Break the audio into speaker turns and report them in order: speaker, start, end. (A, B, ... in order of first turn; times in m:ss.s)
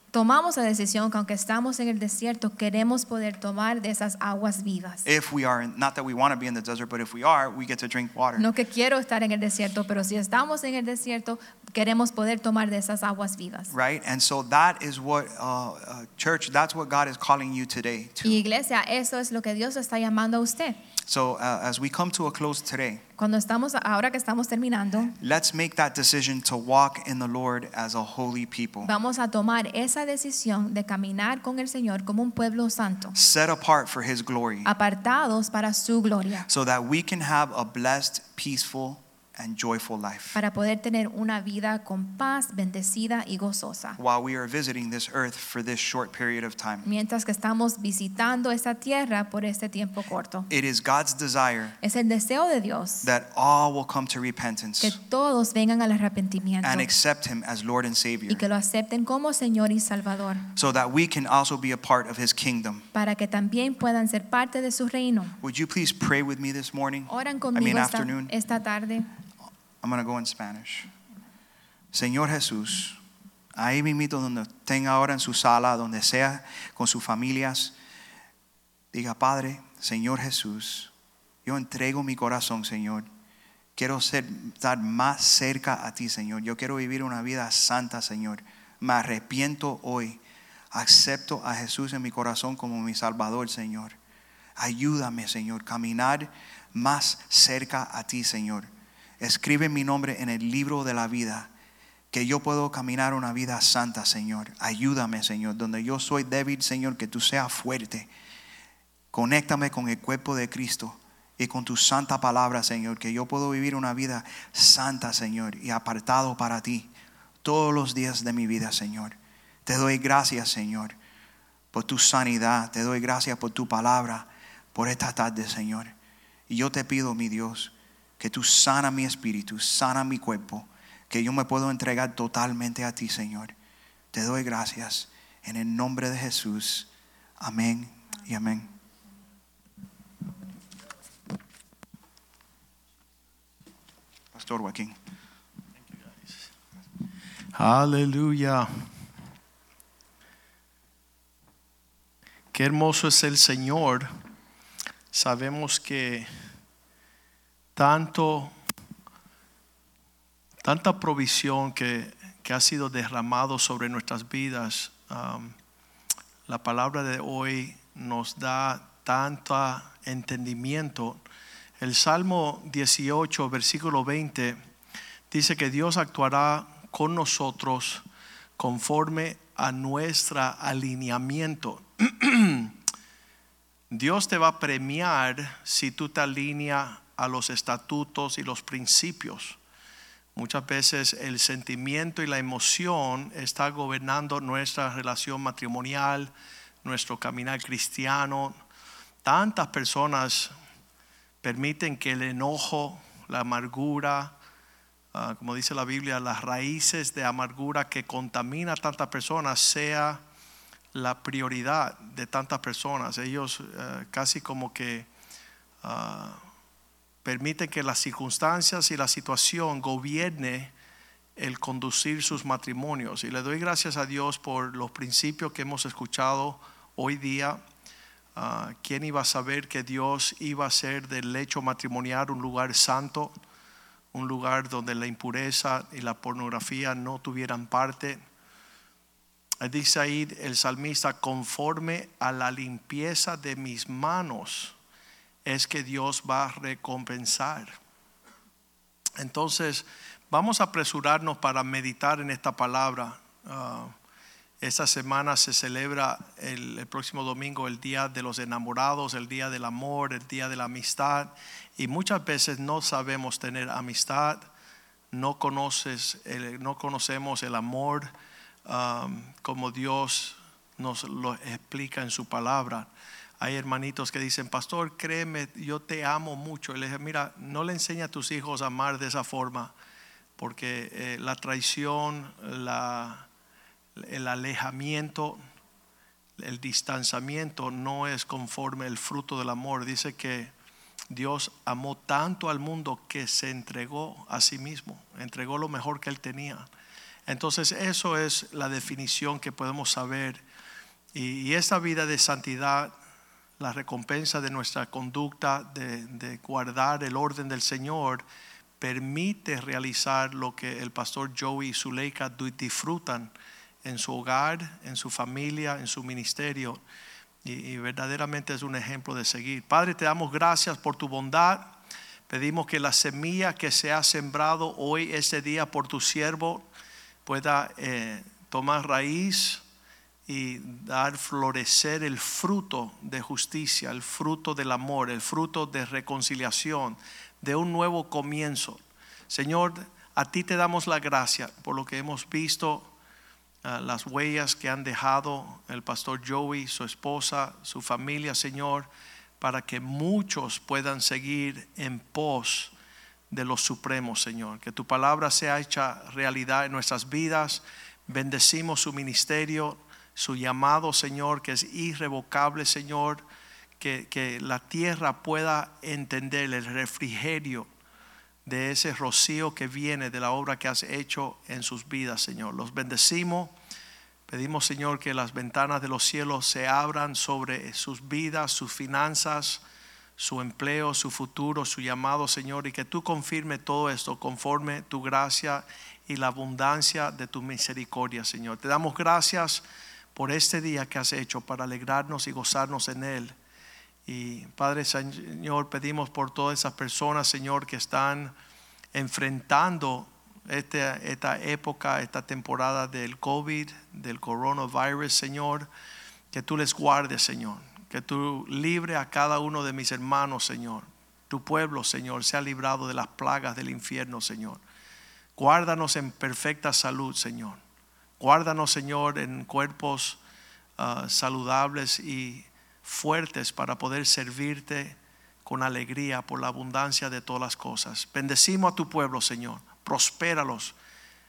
0:00.1-0:05.0 A
0:05.0-0:08.4 B
0:08.4-0:13.7 A
0:13.7-0:18.4 B
0:18.2-0:20.8 A
0:21.0-0:23.0 B
0:23.2-0:25.1 A
0:25.2-0:28.9 B
0:28.8-0:33.1 A
0:33.1-0:34.7 B
0:34.6-0:36.5 A
0:36.5-0:40.4 B
0:40.3-0:44.0 A
0:44.0-0:46.8 B
0:46.8-0:50.5 A
0:50.5-0:51.8 B
0:51.8-0:53.1 A
0:53.0-0:55.0 B
0:54.8-0:56.9 A
0:56.6-0:58.4 B
0:58.3-1:00.4 A
1:00.6-1:02.8 B
1:02.9-1:05.4 A
1:05.4-1:08.3 B
1:07.1-1:09.1 A
1:09.8-1:10.9 B
1:11.9-1:13.0 B
1:13.5-1:17.7 B
1:18.9-1:20.9 B
1:21.4-1:23.1 B
1:23.8-1:30.2 B
1:30.7-1:34.0 B
1:34.6-1:41.5 B
1:42.1-1:48.1 B
1:49.1-1:56.9 B
1:57.4-2:01.0 B
2:01.7-2:05.9 B
2:06.5-2:13.5 B
2:14.1-2:18.7 B
2:24.3-2:25.0 B
2:25.9-2:26.5 C
2:27.5-2:28.9 C
2:32.5-2:34.1 C
2:35.1-2:36.3 C
2:37.8-2:38.5 C
2:40.6-2:45.5 C
2:46.4-2:51.2 C
2:51.8-2:54.6 C
2:55.3-2:58.0 C
2:58.6-3:02.8 C
3:03.9-3:09.6 C
3:10.3-3:16.3 C
3:16.8-3:18.6 C
3:19.2-3:20.5 C
3:21.4-3:24.3 C
3:25.1-3:30.2 C
3:30.9-3:35.1 C
3:35.8-3:36.4 C
3:37.2-3:40.7 C
3:41.4-3:47.6 C
3:48.4-3:53.3 C
3:54.1-3:58.2 C
3:59.6-4:04.7 C
4:05.4-4:07.7 C
4:09.2-4:13.9 C
4:14.6-4:24.4 C
4:25.1-4:28.1 C
4:28.6-4:39.7 C
4:40.4-4:43.3 C
4:44.0-4:45.4 C
4:46.4-4:50.5 C
4:51.1-4:56.7 C
4:57.2-5:00.4 C
5:01.1-5:02.9 C
5:03.6-5:08.2 C
5:08.8-5:13.3 C
5:13.8-5:16.8 C
5:17.4-5:21.8 C
5:22.3-5:26.6 C
5:27.2-5:29.6 C
5:30.3-5:42.9 C
5:43.6-5:52.7 C
5:53.3-6:03.2 C
6:03.8-6:07.7 C
6:08.4-6:13.5 C
6:14.3-6:19.6 C
6:20.2-6:29.6 C
6:30.1-6:33.3 C
6:34.0-6:38.3 C
6:38.9-6:45.7 C
6:46.3-6:54.6 C
6:55.4-6:57.6 C
6:58.2-7:00.2 C
7:00.8-7:10.7 C